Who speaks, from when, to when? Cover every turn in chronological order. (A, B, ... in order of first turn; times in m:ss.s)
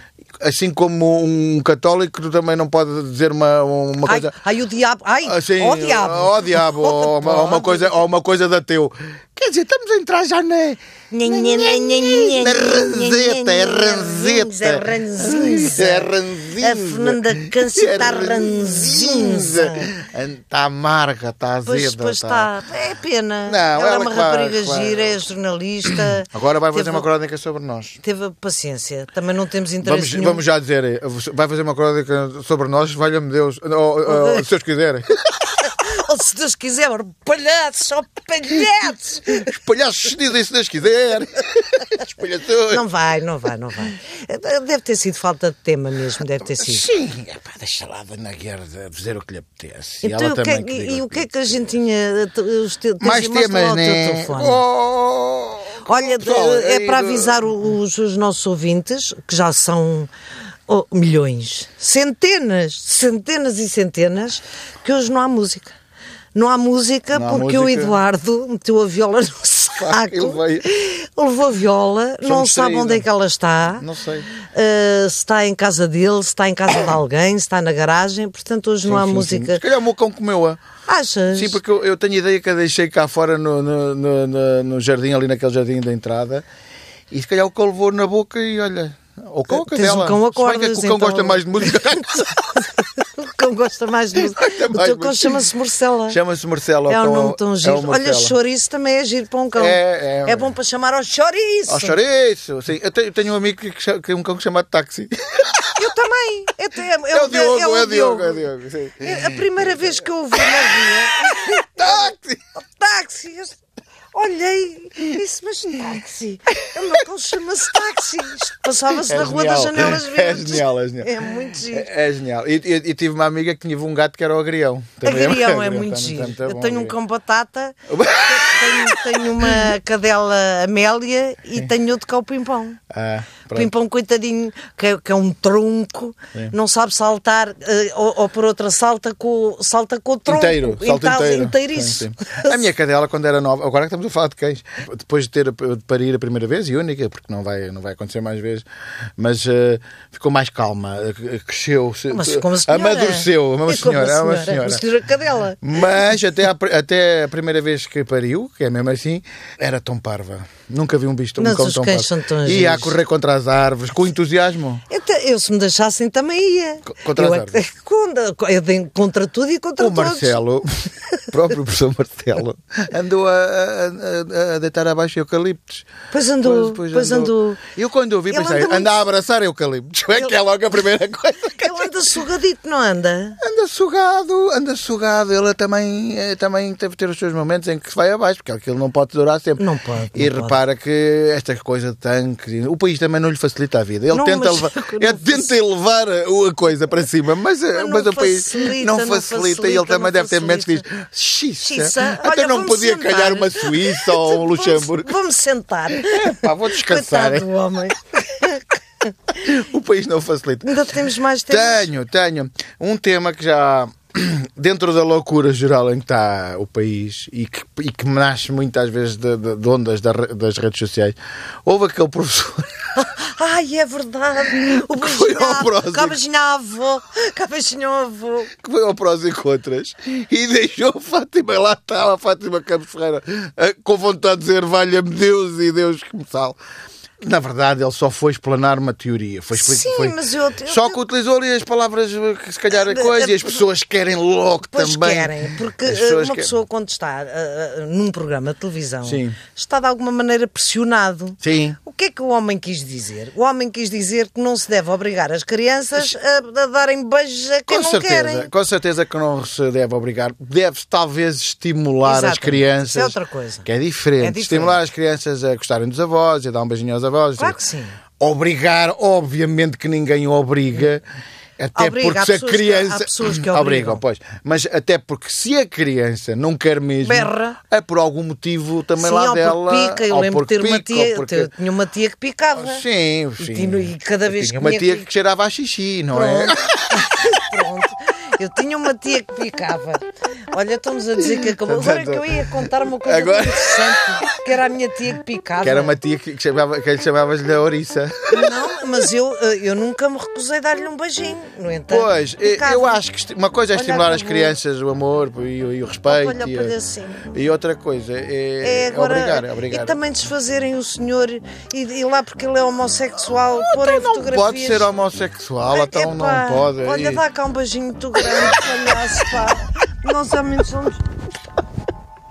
0:00.4-0:04.3 A
0:04.0-0:08.0 B
0:05.3-0:22.5 A
0:11.1-0:19.9 B
0:21.6-0:27.1 B
0:23.5-0:25.2 A
0:25.9-0:28.0 A
0:28.0-0:30.4 B
0:29.8-0:35.5 A
0:34.0-0:34.4 B
0:35.6-0:39.5 B
0:39.4-0:42.8 A
0:42.7-0:46.9 B
0:46.6-0:51.6 A
0:50.0-0:54.6 B
0:53.0-0:57.7 A
0:55.8-1:00.1 B
1:00.7-1:05.7 B
1:06.4-1:13.8 B
1:07.1-1:08.0 A
1:09.8-1:10.7 A
1:12.2-1:13.1 A
1:13.8-1:14.3 A
1:14.4-1:19.6 B
1:18.8-1:20.6 A
1:20.9-1:21.6 B
1:21.3-1:26.4 A
1:27.1-1:32.3 A
1:29.5-1:36.2 B
1:34.2-1:35.4 A
1:36.1-1:38.4 A
1:36.9-1:42.0 B
1:39.6-1:40.5 A
1:41.7-1:45.7 A
1:45.8-1:48.4 B
1:47.1-1:52.4 A
1:49.0-1:53.6 B
1:54.1-2:01.9 B
1:58.9-2:07.0 A
2:05.0-2:12.8 B
2:07.9-2:09.7 A
2:12.9-2:13.7 A
2:13.5-2:22.7 B
2:20.3-2:28.7 A
2:29.2-2:34.8 A
2:32.1-2:36.0 B
2:35.6-2:44.8 A
2:41.4-2:43.0 B
2:44.9-2:50.4 B
2:46.9-2:47.6 A
2:49.8-2:50.7 A
2:51.3-2:55.9 A
2:56.1-2:57.6 B
2:56.4-3:01.9 A
2:58.3-2:59.0 B
3:01.5-3:03.4 B
3:03.4-3:09.6 A
3:09.6-3:10.6 B
3:10.1-3:25.2 A
3:14.1-3:15.5 B
3:17.7-3:20.8 B
3:21.6-3:29.0 B
3:25.9-3:27.5 A
3:29.3-3:30.9 A
3:30.6-3:31.9 B
3:31.5-3:42.9 A
3:43.0-3:48.5 B
3:44.4-3:46.2 A
3:48.5-3:56.6 A
3:57.2-4:06.6 A
3:59.5-4:01.0 B
4:02.7-4:03.6 B
4:04.7-4:18.5 B
4:09.0-4:09.4 A
4:11.4-4:11.8 A
4:17.7-4:27.6 A
4:22.0-4:23.7 B
4:24.2-4:24.8 B
4:27.4-4:28.0 B
4:28.2-4:31.0 A
4:31.6-4:41.5 A
4:31.8-4:34.0 B
4:37.0-4:37.6 B
4:39.0-4:42.8 B
4:42.6-4:47.0 A
4:43.4-4:45.1 B
4:46.1-4:56.0 B
4:51.3-4:54.3 A
4:55.6-4:58.6 A
4:58.3-5:03.0 B
5:01.9-5:06.7 A
5:03.7-5:04.6 B
5:06.1-5:07.3 B
5:07.3-5:10.0 A
5:08.6-5:14.9 B
5:13.6-5:17.2 A
5:15.7-5:21.0 B
5:18.2-5:18.9 A